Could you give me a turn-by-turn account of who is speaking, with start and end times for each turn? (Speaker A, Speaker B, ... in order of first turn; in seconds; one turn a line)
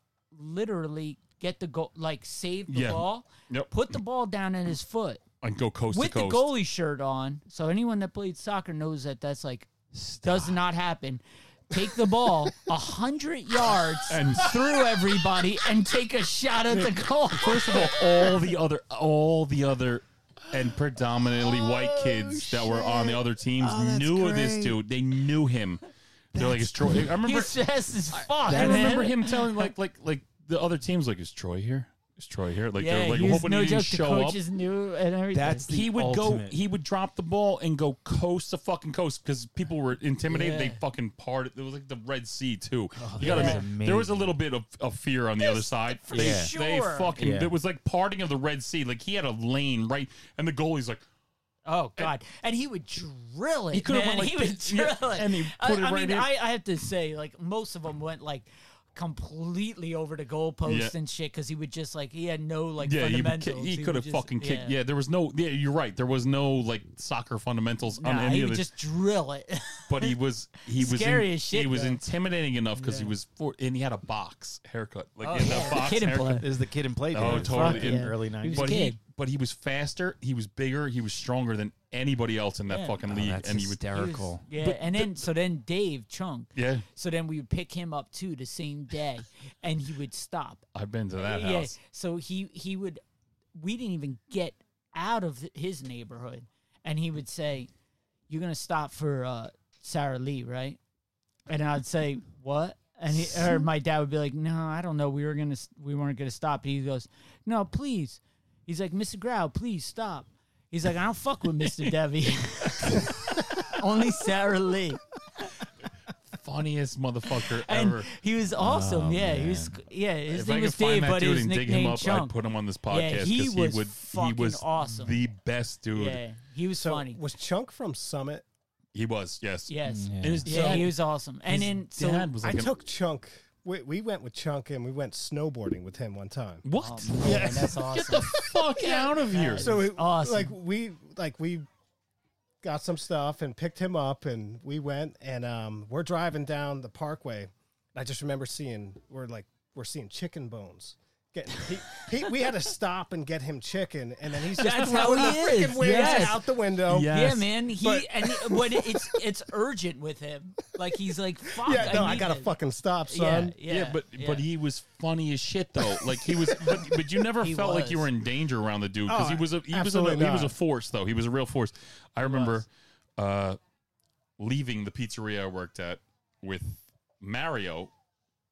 Speaker A: 0.3-5.2
Speaker B: 2.7-3.7
Speaker B: 5.4-6.5
Speaker A: 5.9-17.9
Speaker C: 9.9-10.6
Speaker B: 14.1-14.9
Speaker B: 17.3-34.4
Speaker C: 21.3-24.8
Speaker C: 26.3-27.1
Speaker A: 27.2-29.4
Speaker C: 28.5-29.1
Speaker A: 32.8-35.7
Speaker C: 35.3-36.5
Speaker B: 35.7-51.0
Speaker A: 40.3-40.8
Speaker C: 43.0-44.4
Speaker A: 43.2-43.6
Speaker A: 45.4-47.1
Speaker C: 46.1-46.5
Speaker C: 47.1-47.5
Speaker A: 51.6-64.8
Speaker B: 53.7-56.3
Speaker B: 60.6-60.9
Speaker B: 62.8-68.7
Speaker A: 68.0-70.1
Speaker B: 69.9-76.6
Speaker A: 70.7-72.0
Speaker A: 72.7-73.1
Speaker A: 75.2-76.5
Speaker C: 76.4-78.8
Speaker B: 77.1-83.8
Speaker A: 77.2-79.0
Speaker A: 82.7-83.0
Speaker C: 83.0-84.4
Speaker A: 83.9-90.6
Speaker B: 84.5-85.2
Speaker B: 86.5-86.8
Speaker B: 90.7-91.7
Speaker A: 91.2-93.0
Speaker A: 93.5-97.7
Speaker A: 98.3-100.8
Speaker A: 101.5-115.0
Speaker B: 116.3-118.1
Speaker A: 117.4-122.3
Speaker C: 118.6-119.8
Speaker B: 120.3-126.2
Speaker A: 122.9-125.2
Speaker A: 125.9-127.2
Speaker D: 126.8-128.4
Speaker B: 128.9-132.7
Speaker A: 129.7-132.3
Speaker C: 129.8-130.8
Speaker D: 132.4-136.6
Speaker B: 136.6-139.8
Speaker A: 136.7-140.5
Speaker D: 138.8-141.7
Speaker D: 142.6-157.2
Speaker A: 154.6-156.4
Speaker B: 155.0-157.5
Speaker A: 157.1-162.5
Speaker D: 157.8-159.2
Speaker D: 161.6-163.6
Speaker A: 163.1-164.4
Speaker B: 163.7-173.6
Speaker A: 167.4-168.1
Speaker D: 169.1-170.5
Speaker A: 172.2-172.6
Speaker B: 174.4-177.9